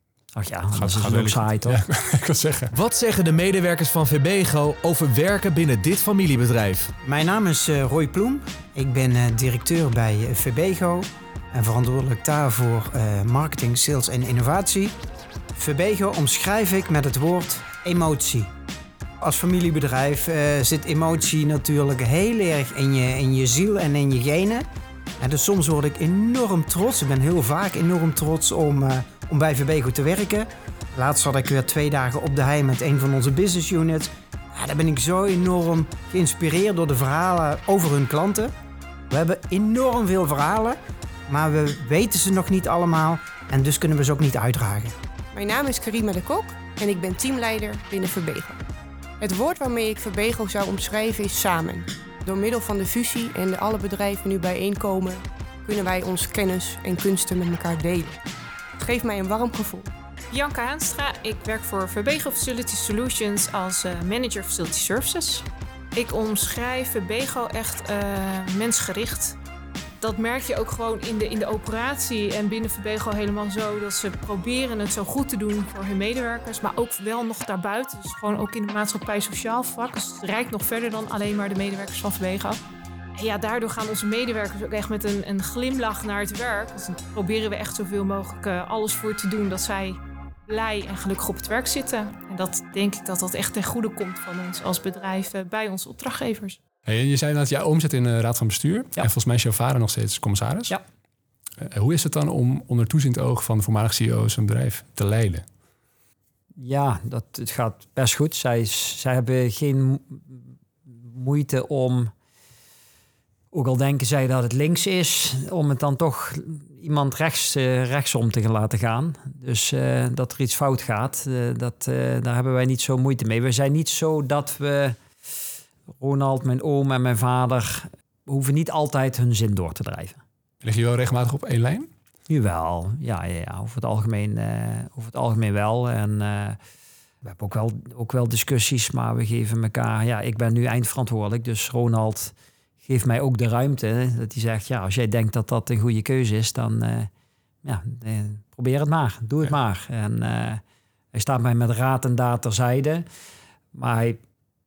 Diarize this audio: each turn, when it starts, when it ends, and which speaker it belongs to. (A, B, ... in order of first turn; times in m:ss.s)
0:00.3-0:01.8 A
0:00.7-0:02.7 B
0:02.7-0:06.9 C
0:07.0-0:15.0 D
0:15.6-0:18.5 D
0:19.2-0:24.6 D
0:25.2-0:38.5 D
0:39.1-0:45.0 D
0:45.3-0:48.6 E
0:49.2-0:58.2 E
0:58.8-0:59.9 E
1:00.3-1:09.4 F
1:10.0-1:22.6 F
1:23.2-1:36.6 F
1:36.8-1:40.8 B
1:41.6-1:45.4 B
1:46.6-1:50.4 A
1:51.0-1:52.1 A
1:53.5-2:05.0 A
2:06.0-2:10.2 A
2:10.6-2:11.9 B
2:12.3-2:16.6 A
2:17.2-2:27.1 A
2:27.6-2:30.6 A
2:31.1-2:33.1 A
2:33.7-2:34.2 A